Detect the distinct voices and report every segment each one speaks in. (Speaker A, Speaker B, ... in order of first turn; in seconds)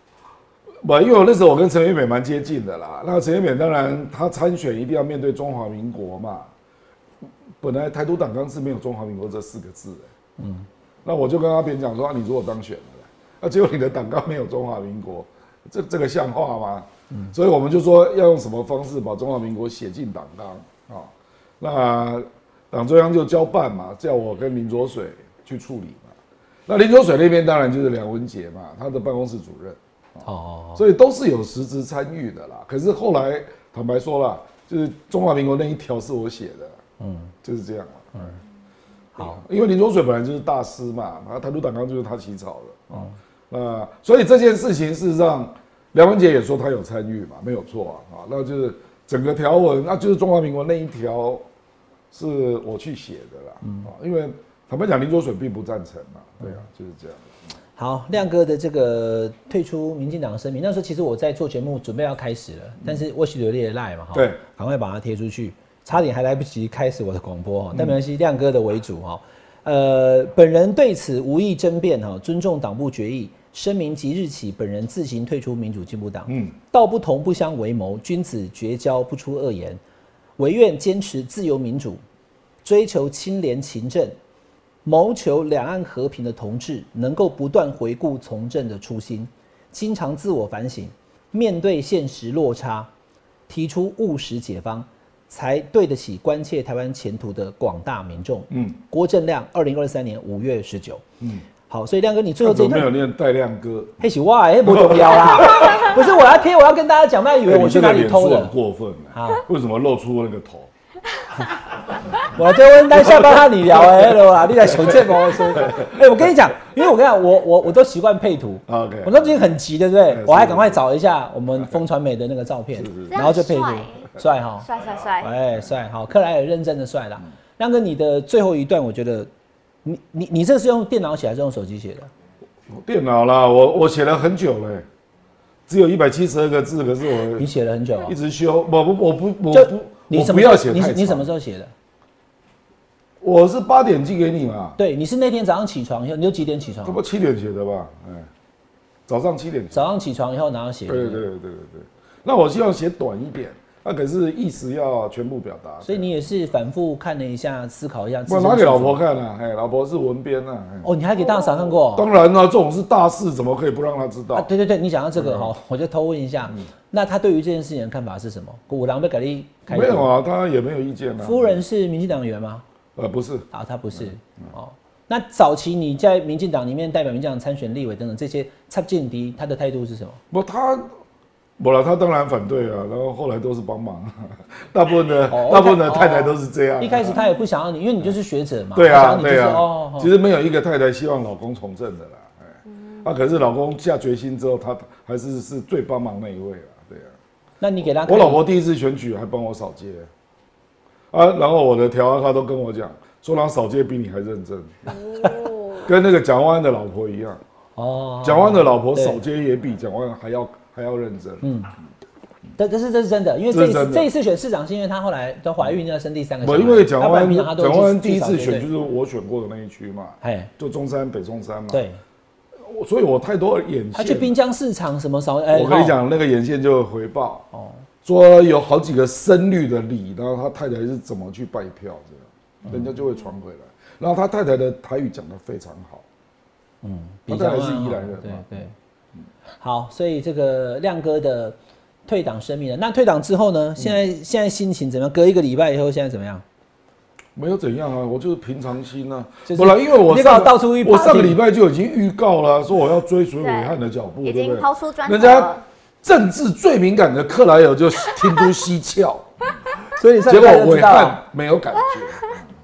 Speaker A: 0.8-6.5, 7.6-10.1, 11.1-26.1, 26.7-30.2, 30.8-36.8, 37.4-38.3, 39.2-51.5, 52.1-57.3, 64.1-64.4, 76.3-76.5, 98.5-98.8, 102.4-104.0, 104.7-106.0, 107.5-110.7, 113.0-114.1, 114.7-115.9, 118.7-119.4, 120.1-120.8, 122.8-123.2, 132.7-134.9, 135.7-137.5, 138.1-141.3, 143.2-144.8, 146.8-148.3, 149.1-149.9, 150.9-156.1, 158.3-160.9, 161.9-164.5, 165.2-165.5, 169.7-171.6, 173.0-174.4, 180.3-180.9, 181.6-187.2, 188.8-197.1, 198.1-200.1, 201.1-204.7, 205.8-207.4, 208.2-211.4, 213.5-214.1, 216.4-221.8, 222.6-224.3, 225.5-227.5, 228.0-236.1, 237.3-238.6, 247.4-255.5, 256.0-259.3, 260.3-262.5
Speaker B: 10.4-10.7, 30.2-30.8, 37.0-37.3, 39.1-39.4, 53.6-53.9, 57.8-79.8, 80.4-82.0, 82.6-84.2, 84.8-92.9, 93.5-101.0, 101.7-102.9, 104.0-108.5, 109.2-109.4, 112.2-124.7, 125.2-129.3, 129.8-132.1, 137.4-138.1, 139.5-141.7, 144.8-147.0, 149.7-151.3, 155.8-159.0, 160.8-162.1, 164.3-170.1, 171.2-172.6, 173.5-180.2, 185.3-190.1, 197.6-198.4, 207.8-209.2, 211.4-211.7, 212.6-218.7, 220.2-220.5, 221.7-222.0, 223.9-226.0, 227.5-227.8, 236.8-238.7, 239.6-246.4, 249.5-251.4, 259.9-261.2
Speaker C: 123.1-124.1, 124.6-125.4, 205.2-205.8, 253.4-255.6